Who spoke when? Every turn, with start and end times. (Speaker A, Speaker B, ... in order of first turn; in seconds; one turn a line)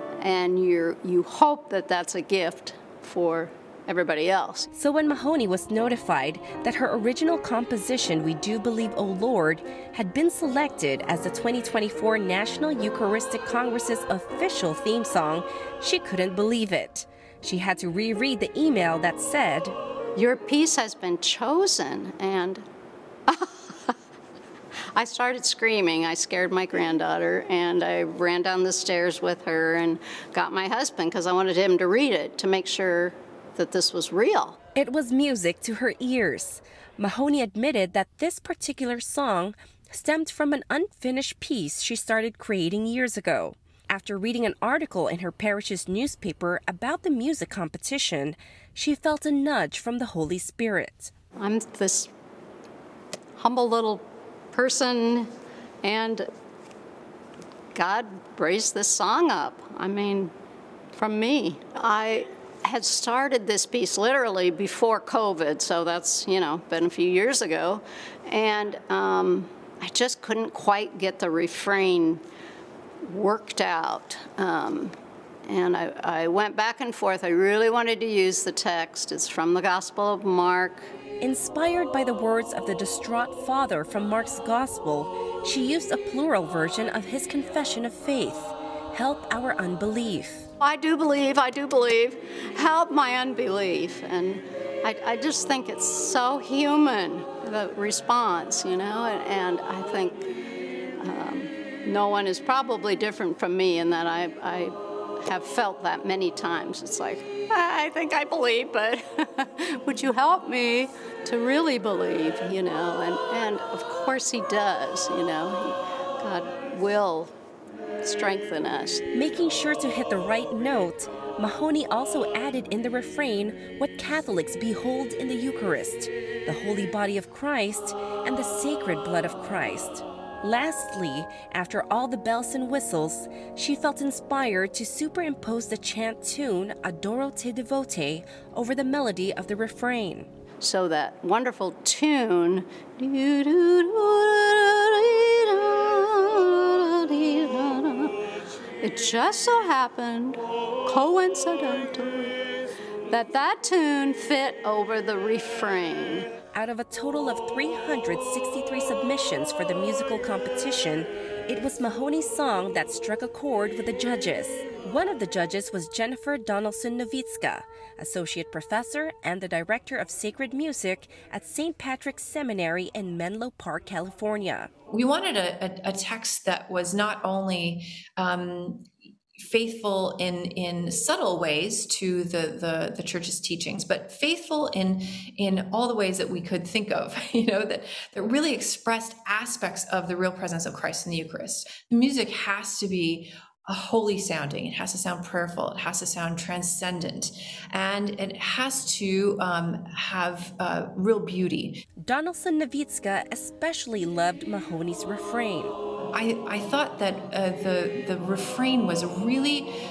Speaker A: 0.2-4.7
Speaker B: 4.7-19.7
Speaker A: 20.1-22.6
Speaker A: 23.3-23.9
Speaker A: 24.9-34.6
Speaker B: 34.8-51.1
Speaker A: 51.4-52.1
Speaker A: 53.4-55.3
Speaker A: 55.8-56.2
Speaker A: 57.7-60.3
Speaker A: 60.9-72.2
Speaker A: 73.0-74.9
Speaker A: 75.5-80.9
Speaker B: 81.2-90.5
Speaker A: 90.6-100.3
Speaker A: 101.0-117.3
Speaker A: 118.0-119.0
Speaker B: 119.1-140.3
Speaker A: 140.6-148.1
Speaker A: 148.8-152.3
Speaker A: 153.1-156.3
Speaker B: 156.5-174.7
Speaker C: 174.9-201.8
Speaker B: 202.0-205.8
Speaker C: 206.1-209.8